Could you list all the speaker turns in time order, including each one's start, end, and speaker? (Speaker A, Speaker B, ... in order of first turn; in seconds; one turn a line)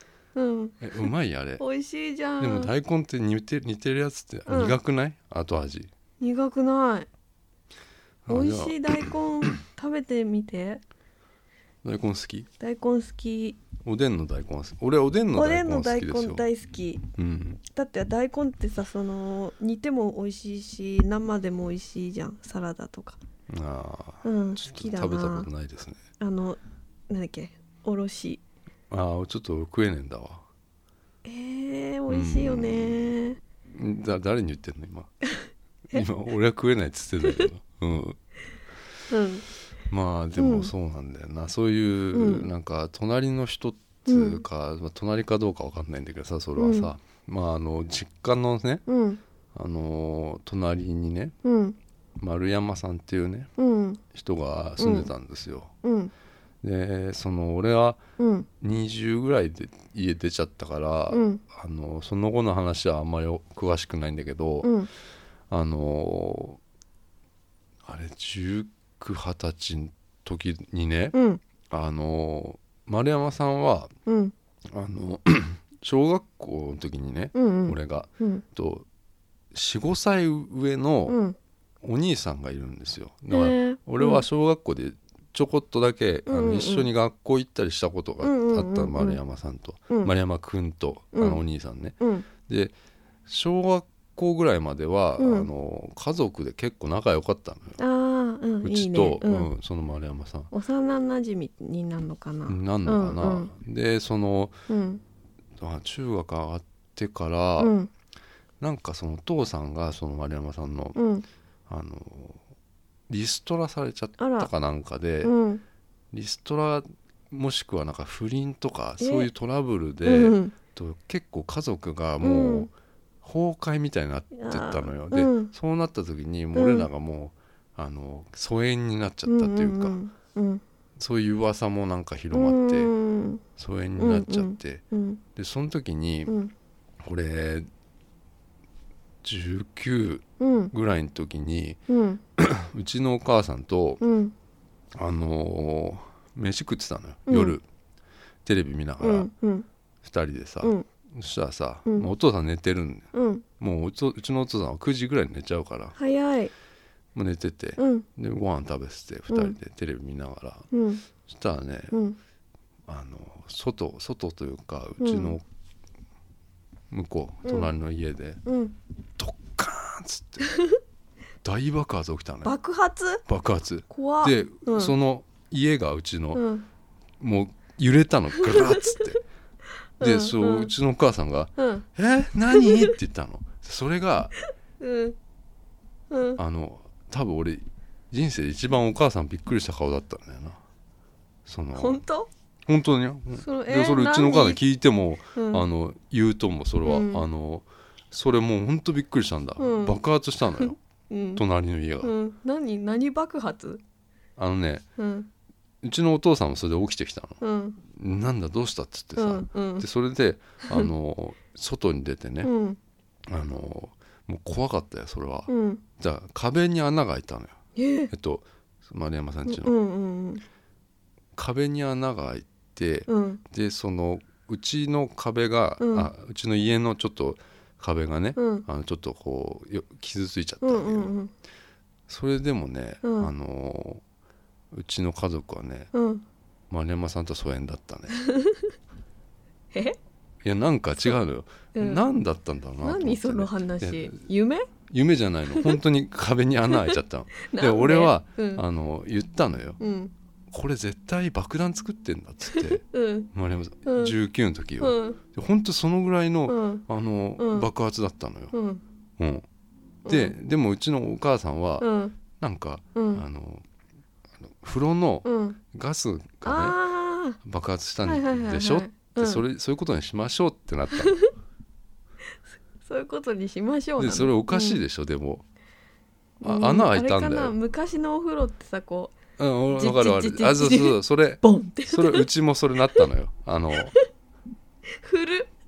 Speaker A: 0.3-2.7
Speaker B: 0.8-1.6
Speaker B: 2.4-5.9
Speaker A: 4.5-4.8
Speaker A: 6.2-7.1
Speaker B: 8.2-9.6
Speaker A: 8.3-10.8
Speaker B: 11.8-12.5
Speaker A: 12.6-13.6
Speaker B: 13.8-16.4
Speaker A: 15.3-17.0
Speaker B: 17.2-17.6
Speaker A: 17.7-23.2
Speaker B: 23.5-26.0
Speaker A: 24.2-25.5
Speaker A: 26.2-28.4
Speaker B: 28.9-30.4
Speaker A: 31.2-33.4
Speaker B: 32.1-33.1
Speaker B: 33.7-35.1
Speaker B: 35.9-38.2
Speaker A: 39.1-39.5
Speaker B: 39.9-48.8
Speaker A: 40.4-40.7
Speaker A: 42.1-42.5
Speaker A: 44.1-44.4
Speaker A: 46.6-46.9
Speaker A: 48.9-49.2
Speaker B: 49.5-51.3
Speaker A: 51.4-51.8
Speaker B: 52.2-53.5
Speaker A: 53.6-54.0
Speaker B: 54.1-55.7
Speaker A: 54.8-55.1
Speaker A: 55.8-56.1
Speaker B: 56.6-58.0
Speaker A: 58.2-58.5
Speaker B: 58.6-64.8
Speaker A: 61.1-61.4
Speaker A: 64.6-64.9
Speaker B: 65.5-66.6
Speaker B: 67.8-71.2
Speaker A: 71.1-71.4
Speaker B: 71.7-73.9
Speaker A: 74.0-74.3
Speaker B: 74.7-78.8
Speaker A: 77.3-78.4
Speaker B: 79.5-81.2
Speaker A: 81.1-81.4
Speaker B: 81.8-92.7
Speaker A: 83.3-84.2
Speaker A: 86.3-86.9
Speaker A: 88.2-89.2
Speaker A: 91.1-91.4
Speaker A: 92.0-92.3
Speaker B: 93.2-97.8
Speaker A: 95.2-95.5
Speaker A: 97.8-99.5
Speaker B: 98.6-100.5
Speaker A: 100.5-103.5
Speaker B: 102.5-104.6
Speaker A: 104.7-105.0
Speaker B: 105.6-107.7
Speaker A: 107.6-107.9
Speaker B: 108.6-111.0
Speaker A: 110.9-111.2
Speaker B: 111.7-112.4
Speaker B: 113.1-115.3
Speaker A: 114.2-114.5
Speaker A: 115.2-115.6
Speaker B: 116.1-122.7
Speaker A: 119.0-119.3
Speaker A: 120.0-120.5
Speaker A: 122.2-122.7
Speaker B: 123.2-130.0
Speaker A: 124.4-125.5
Speaker A: 126.5-126.9
Speaker A: 129.2-130.6
Speaker B: 131.0-132.9
Speaker A: 132.3-133.4
Speaker B: 133.6-134.8
Speaker A: 134.0-135.2
Speaker B: 135.3-136.3
Speaker A: 136.3-136.5
Speaker B: 137.0-137.7
Speaker B: 139.2-141.8
Speaker A: 140.4-140.7
Speaker A: 141.9-142.2
Speaker B: 142.4-144.0
Speaker A: 144.0-144.3
Speaker B: 144.9-147.6
Speaker A: 147.3-147.6
Speaker B: 148.4-149.3
Speaker A: 149.0-149.7
Speaker B: 150.0-153.1
Speaker A: 153.1-153.4
Speaker B: 153.6-155.9
Speaker A: 155.9-156.5
Speaker B: 157.1-160.7
Speaker A: 157.8-158.1
Speaker A: 159.3-159.6
Speaker A: 160.7-161.0
Speaker B: 161.2-162.0
Speaker A: 161.9-162.2
Speaker B: 162.9-165.4
Speaker A: 165.0-165.4
Speaker B: 166.9-168.4
Speaker A: 167.4-167.7
Speaker A: 168.4-168.8
Speaker B: 169.2-170.5
Speaker B: 171.4-172.5
Speaker A: 172.4-173.2
Speaker B: 173.2-176.4
Speaker A: 173.9-174.9
Speaker A: 176.3-176.7
Speaker B: 177.2-179.2
Speaker A: 178.4-179.1
Speaker A: 180.0-180.7
Speaker B: 180.0-184.4
Speaker A: 181.6-181.8
Speaker A: 182.5-182.9
Speaker A: 184.8-185.2
Speaker A: 186.1-186.4
Speaker B: 186.3-190.6
Speaker B: 191.4-192.0
Speaker A: 191.7-192.3
Speaker B: 192.7-200.8
Speaker A: 193.4-194.6
Speaker A: 195.3-195.6
Speaker A: 196.8-197.2
Speaker A: 199.6-200.0
Speaker A: 200.6-201.4
Speaker B: 201.3-202.1
Speaker A: 202.0-203.8
Speaker B: 204.4-204.8
Speaker A: 205.0-205.3
Speaker B: 205.8-212.5
Speaker A: 207.4-207.8
Speaker A: 209.2-209.8
Speaker A: 212.4-212.8
Speaker B: 213.3-217.6
Speaker A: 215.5-215.8
Speaker A: 217.8-218.1
Speaker B: 218.1-219.8
Speaker A: 219.4-220.4
Speaker B: 221.3-231.1
Speaker A: 223.1-223.4
Speaker A: 225.8-226.1
Speaker A: 228.3-228.7
Speaker A: 230.6-231.3
Speaker B: 232.1-234.0
Speaker A: 233.0-233.3
Speaker B: 234.7-235.9
Speaker A: 235.9-236.2
Speaker B: 236.7-238.2
Speaker A: 238.1-238.8
Speaker A: 239.7-240.0
Speaker B: 240.4-244.2
Speaker A: 241.7-242.0
Speaker A: 242.8-244.7
Speaker B: 244.9-249.8
Speaker A: 245.5-245.8
Speaker A: 246.7-248.6
Speaker A: 249.8-250.1
Speaker B: 250.5-258.5
Speaker A: 252.5-253.3
Speaker A: 253.8-254.1
Speaker A: 254.8-255.2
Speaker A: 256.5-256.8
Speaker A: 257.4-257.7
Speaker A: 258.5-258.8
Speaker B: 259.2-259.4
Speaker A: 260.1-260.3
Speaker B: 260.1-263.6
Speaker A: 261.8-262.2
Speaker A: 262.9-263.2
Speaker B: 264.5-266.8
Speaker A: 265.2-265.6
Speaker A: 266.4-267.4
Speaker B: 267.4-271.2
Speaker A: 268.0-269.4
Speaker A: 270.9-271.3
Speaker A: 272.8-274.8
Speaker B: 274.0-275.4
Speaker A: 276.4-279.1
Speaker B: 276.4-277.5
Speaker B: 279.4-283.9
Speaker A: 279.7-282.3
Speaker A: 284.9-285.5